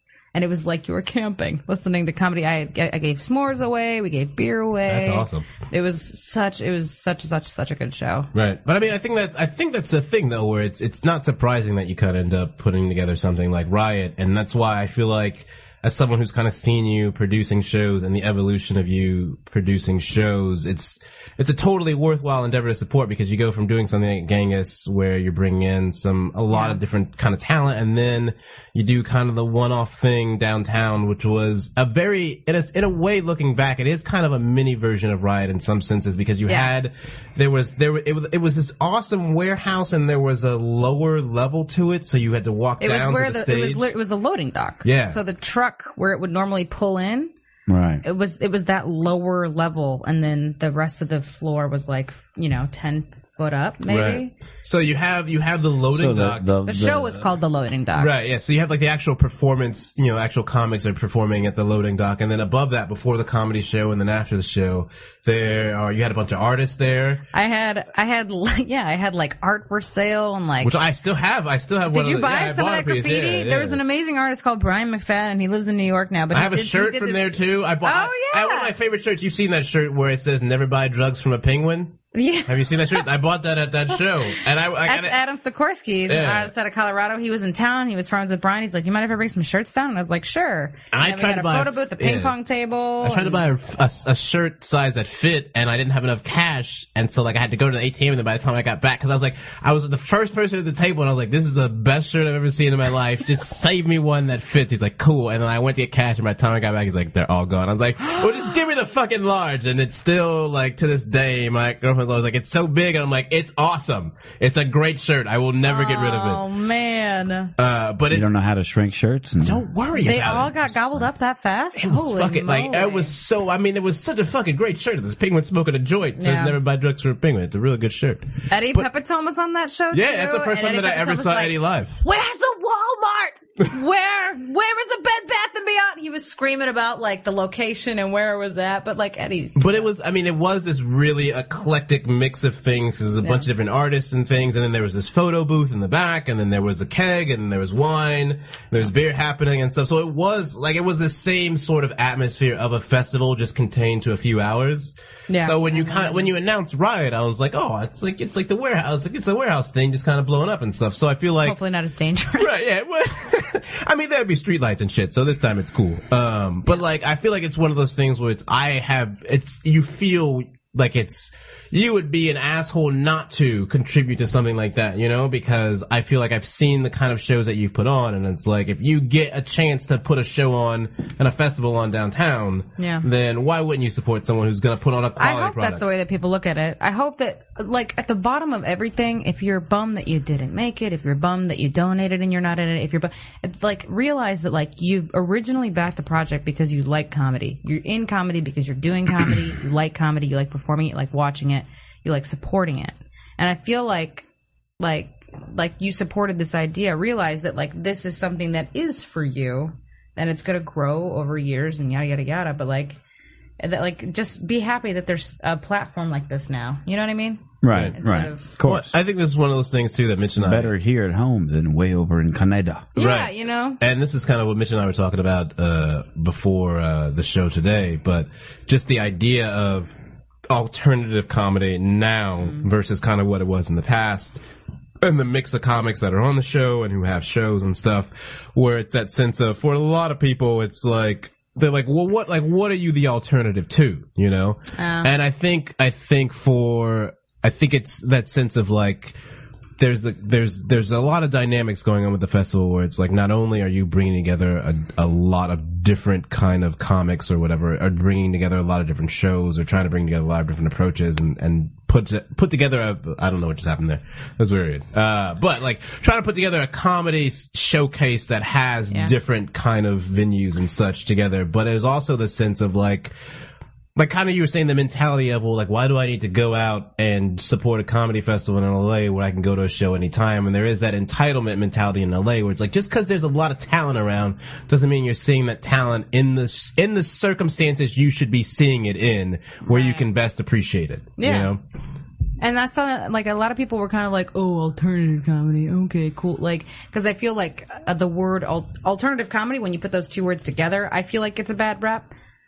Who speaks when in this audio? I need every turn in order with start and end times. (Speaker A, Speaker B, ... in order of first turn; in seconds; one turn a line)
Speaker A: 0.3-8.3
Speaker B: 4.9-5.5
Speaker B: 8.3-43.9
Speaker A: 26.5-26.8
Speaker A: 42.8-47.3
Speaker B: 44.8-45.2
Speaker C: 47.7-48.0
Speaker A: 48.0-54.3
Speaker B: 53.9-56.5
Speaker C: 55.9-57.1
Speaker A: 56.6-58.1
Speaker B: 58.0-67.2
Speaker A: 67.3-70.7
Speaker B: 70.6-73.8
Speaker A: 71.9-78.7
Speaker B: 76.3-85.2
Speaker A: 82.1-83.0
Speaker A: 84.8-93.4
Speaker B: 86.1-86.5
Speaker B: 90.9-92.3
Speaker B: 93.0-116.4
Speaker A: 115.7-117.5
Speaker B: 117.6-118.3
Speaker C: 118.1-121.1
Speaker B: 119.4-120.5
Speaker A: 119.9-123.1
Speaker B: 121.7-128.8
Speaker A: 126.2-126.6
Speaker A: 128.5-139.9
Speaker B: 129.9-132.0
Speaker B: 139.6-161.6
Speaker A: 143.2-143.5
Speaker A: 155.3-156.3
Speaker A: 161.4-162.5
Speaker B: 162.4-185.8
Speaker A: 182.8-183.0
Speaker A: 185.2-204.2
Speaker A: 204.8-213.0
Speaker A: 213.6-218.5
Speaker C: 217.6-218.9
Speaker B: 218.6-220.7
Speaker C: 220.4-222.9
Speaker A: 222.9-223.8
Speaker B: 223.0-229.9
Speaker B: 230.5-234.4
Speaker B: 235.0-249.2
Speaker A: 244.8-245.1
Speaker B: 249.8-273.1
Speaker B: 273.9-291.6
Speaker A: 289.7-290.0
Speaker A: 291.2-291.5
Speaker A: 292.4-302.1